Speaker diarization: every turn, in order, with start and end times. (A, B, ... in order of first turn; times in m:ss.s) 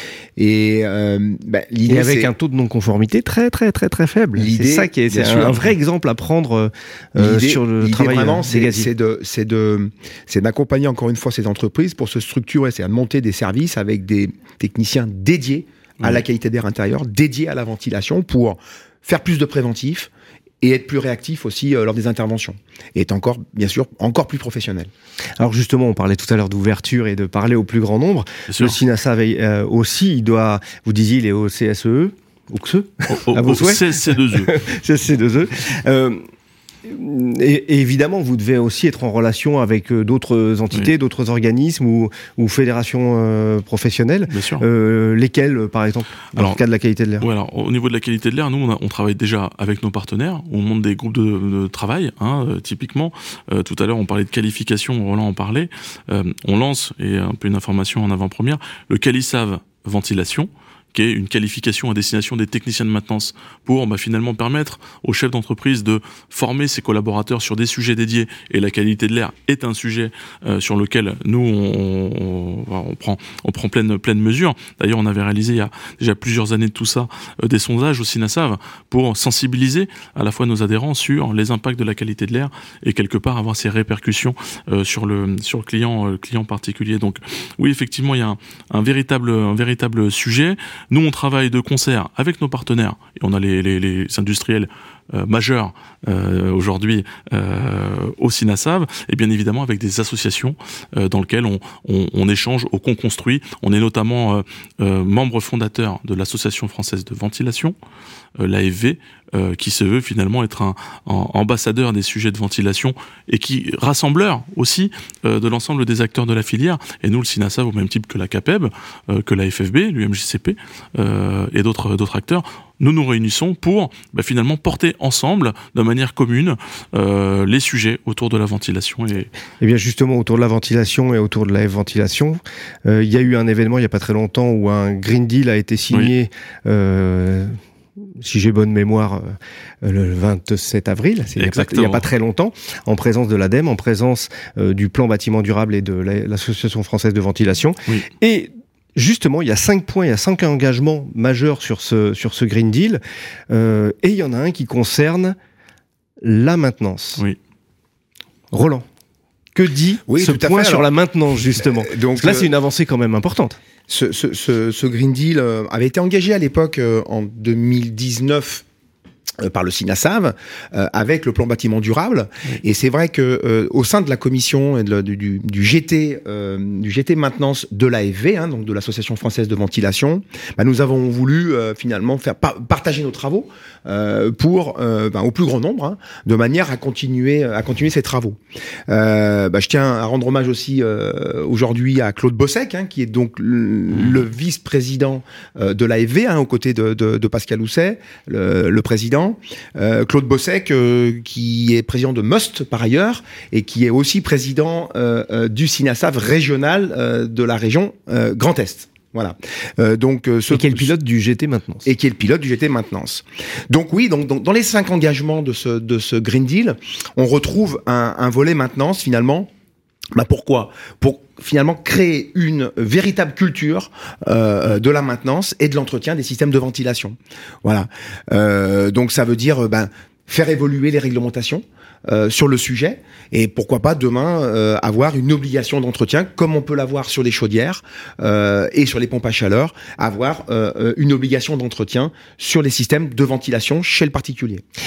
0:00.4-0:02.3 A
0:01.9-0:08.9 B
0:04.4-0:05.6 A
0:07.2-0:20.1 A
0:20.6-0:24.9 A
0:25.4-0:36.3 B
0:28.5-0:28.8 C
0:33.1-0:34.5 C
0:36.8-0:47.3 B
0:44.3-0:44.7 C
0:46.4-0:46.6 C
0:47.2-1:47.8 C
1:48.4-2:09.3 C
2:09.6-2:17.6 B
2:18.2-2:35.4 B
2:21.4-2:22.1 C
2:36.2-2:37.2 B
2:38.5-2:38.9 B
2:39.6-2:43.6 B
2:40.1-2:40.9 A
2:41.6-2:42.5 A
2:43.9-2:48.6 A
2:49.4-3:30.9 A
3:30.5-3:31.9 B
3:31.9-3:39.5 A
3:40.1-4:04.6 A